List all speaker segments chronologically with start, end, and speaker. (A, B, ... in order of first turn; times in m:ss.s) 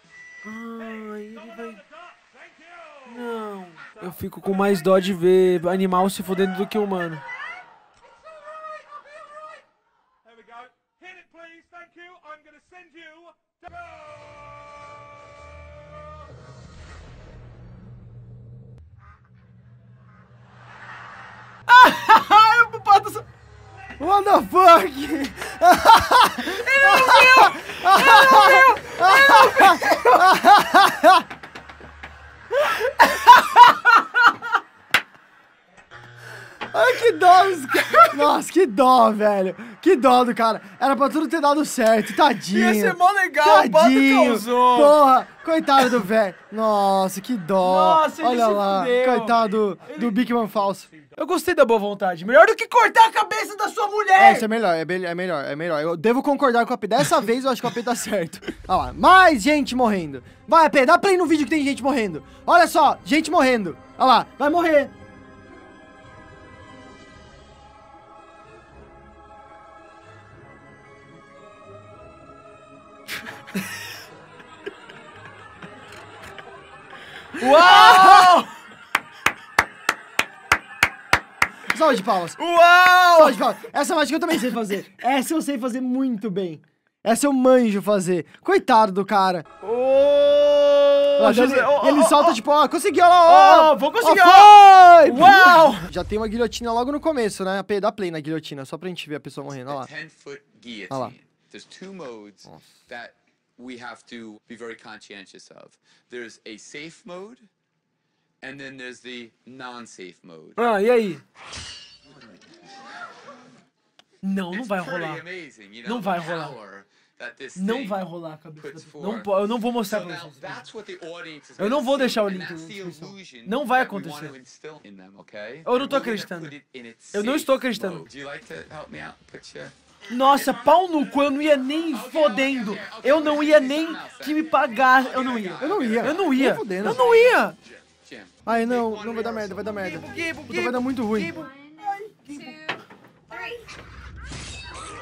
0:00.4-0:01.8 A
0:03.0-0:07.2 A
0:21.7-0:23.3 A
0:24.0-0:31.2 B
0:26.4-0:30.4 A
0:32.7-0:34.4 A
0:36.7-0:50.9 B
0:37.8-0:38.1 A
0:42.5-0:45.0 A
0:47.6-0:50.1 A
0:51.2-0:54.5 A
0:54.2-1:04.9 B
1:17.4-1:18.5 A
1:17.5-1:18.4 B
1:21.7-1:22.4 B
1:22.4-1:23.4 A
1:23.2-1:29.5 B
1:29.6-1:32.4 A
1:31.2-1:39.9 B
1:33.3-1:35.9 A
1:39.6-1:47.5 C
1:40.9-1:41.2 B
1:42.5-1:42.8 B
1:48.4-1:50.6 C
1:50.6-1:51.2 A
1:54.2-1:55.2 A
1:54.5-2:09.7 C
1:55.8-1:56.6 A
1:57.6-2:00.7 A
2:01.6-2:04.4 A
2:05.7-2:06.6 A
2:07.1-2:08.1 A
2:10.1-2:17.6 A
2:11.9-2:19.8 C
2:15.6-2:17.2 B
2:18.4-2:21.4 B
2:19.8-2:22.6 A